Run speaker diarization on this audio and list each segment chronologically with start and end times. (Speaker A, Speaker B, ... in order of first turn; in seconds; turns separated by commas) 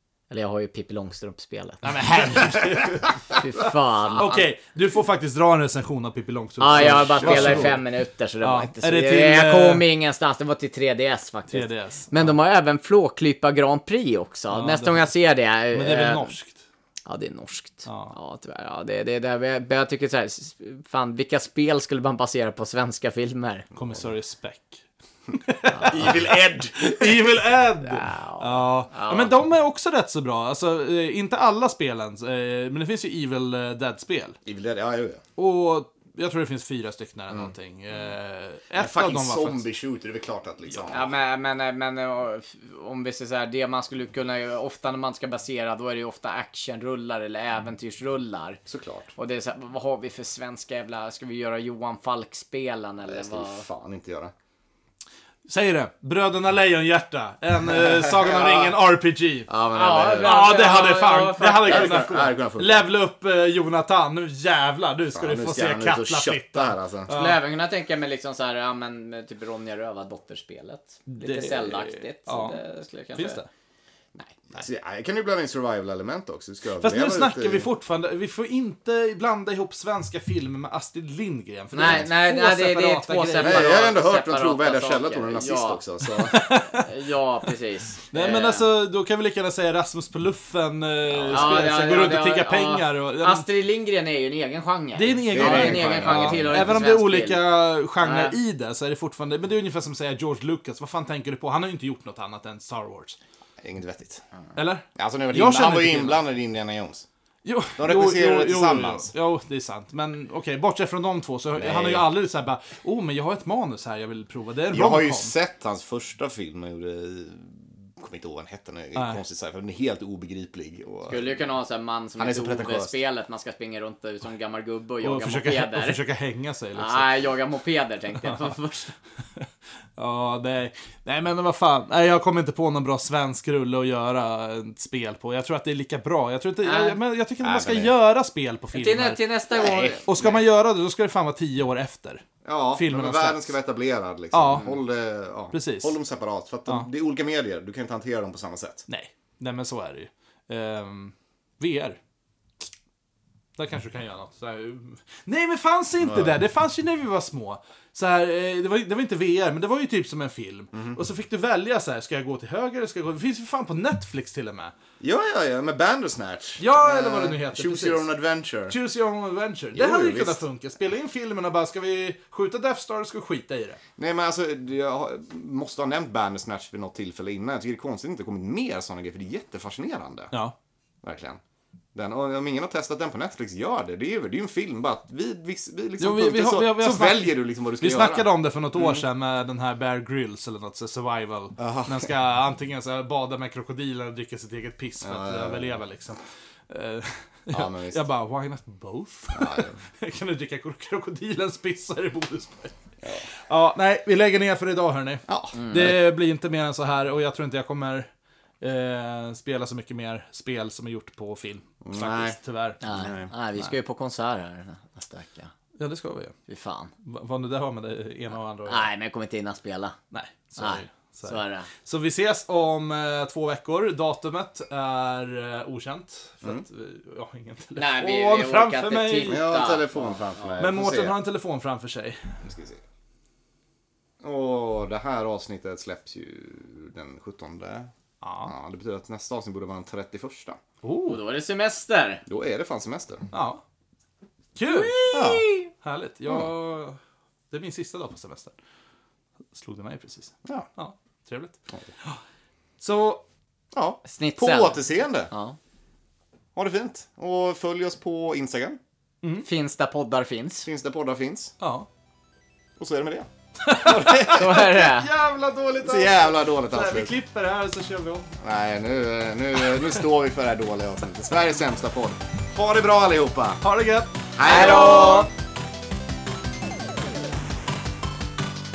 Speaker A: 0.3-2.6, Speaker B: 1.8-3.4, Speaker C: 2.4-2.9, Speaker A: 3.3-4.3, Speaker C: 4.1-4.4, Speaker B: 4.2-7.8, Speaker A: 6.6-16.3, Speaker C: 6.7-7.8, Speaker B: 8.4-9.8, Speaker B: 11.5-12.1, Speaker B: 14.5-15.1, Speaker B: 15.7-16.6, Speaker A: 17.1-23.7, Speaker B: 17.9-18.1, Speaker C: 23.8-24.0, Speaker B: 23.8-34.4, Speaker A: 25.7-26.0, Speaker C: 25.8-27.4, Speaker A: 27.8-29.3, Speaker C: 34.4-35.2, Speaker B: 35.4-39.6, Speaker C: 38.8-41.1, Speaker A: 40.9-48.6, Speaker C: 48.7-49.1, Speaker A: 49.1-53.6, Speaker C: 53.0-54.3, Speaker B: 55.5-59.5, Speaker C: 57.6-58.7, Speaker C: 59.5-60.5, Speaker A: 59.7-62.1, Speaker B: 60.1-67.4, Speaker C: 61.6-62.9, Speaker C: 65.1-67.1, Speaker A: 67.1-73.4, Speaker B: 71.1-72.6, Speaker B: 73.1-73.5, Speaker C: 74.5-77.7, Speaker B: 76.8-83.7, Speaker A: 81.7-85.8, Speaker C: 81.8-82.1, Speaker C: 83.4-86.4, Speaker B: 86.0-86.9, Speaker A: 86.3-88.7, Speaker B: 88.1-93.4, Speaker C: 91.1-91.6, Speaker A: 91.2-97.4, Speaker B: 94.9-103.2, Speaker C: 95.3-96.8, Speaker A: 98.0-98.3, Speaker C: 103.6-104.2, Speaker B: 104.5-106.2, Speaker C: 104.9-107.1, Speaker B: 107.4-115.3, Speaker C: 107.8-109.1, Speaker C: 111.5-112.1, Speaker C: 114.7-121.4, Speaker B: 118.9-119.2, Speaker A: 121.1-126.0, Speaker C: 122.2-122.9, Speaker B: 125.0-127.2, Speaker A: 126.7-128.9, Speaker B: 128.2-128.5, Speaker B: 129.3-139.2, Speaker A: 136.6-137.0, Speaker C: 137.4-137.9, Speaker A: 138.7-140.1, Speaker C: 139.5-140.4, Speaker B: 140.0-143.5, Speaker C: 142.4-148.8, Speaker B: 144.3-144.8, Speaker B: 145.5-146.0, Speaker B: 148.9-152.0, Speaker B: 153.6-164.7, Speaker C: 156.0-156.4, Speaker C: 160.7-161.0, Speaker C: 165.0-168.7, Speaker B: 166.6-168.1, Speaker B: 168.7-173.8, Speaker C: 169.7-170.4, Speaker C: 174.0-180.3, Speaker C: 181.0-181.4, Speaker C: 181.9-189.0, Speaker B: 186.0-202.8, Speaker C: 191.6-192.1, Speaker C: 195.0-195.8, Speaker C: 197.5-198.0, Speaker C: 199.3-199.8, Speaker C: 203.0-203.3, Speaker B: 203.4-208.1, Speaker C: 205.3-206.0, Speaker A: 205.5-205.9, Speaker B: 208.6-212.8, Speaker C: 211.8-212.4, Speaker A: 212.8-215.5, Speaker C: 212.9-213.3, Speaker B: 215.8-216.3, Speaker A: 216.5-216.9, Speaker B: 217.0-218.9, Speaker A: 218.7-219.9, Speaker B: 220.1-229.4, Speaker A: 220.6-221.7, Speaker A: 227.8-230.5, Speaker C: 229.2-231.1, Speaker B: 230.6-232.4, Speaker C: 232.4-232.8, Speaker C: 234.2-237.9, Speaker B: 238.2-238.5, Speaker C: 238.4-240.6, Speaker B: 240.8-241.2, Speaker A: 241.1-242.2, Speaker C: 242.3-243.3, Speaker B: 243.3-243.6, Speaker B: 244.6-247.0, Speaker A: 244.7-245.7, Speaker C: 245.1-245.4, Speaker B: 247.5-248.5, Speaker B: 249.5-252.2, Speaker B: 252.8-253.2, Speaker C: 253.7-255.3, Speaker A: 254.0-255.6, Speaker C: 256.5-258.8, Speaker A: 259.4-260.7, Speaker C: 260.6-261.5, Speaker B: 261.6-261.9, Speaker C: 262.8-264.7, Speaker B: 263.6-268.3, Speaker A: 264.2-265.1, Speaker C: 265.8-267.1, Speaker C: 268.4-273.6, Speaker B: 273.6-275.3, Speaker C: 274.4-275.3, Speaker A: 274.4-275.3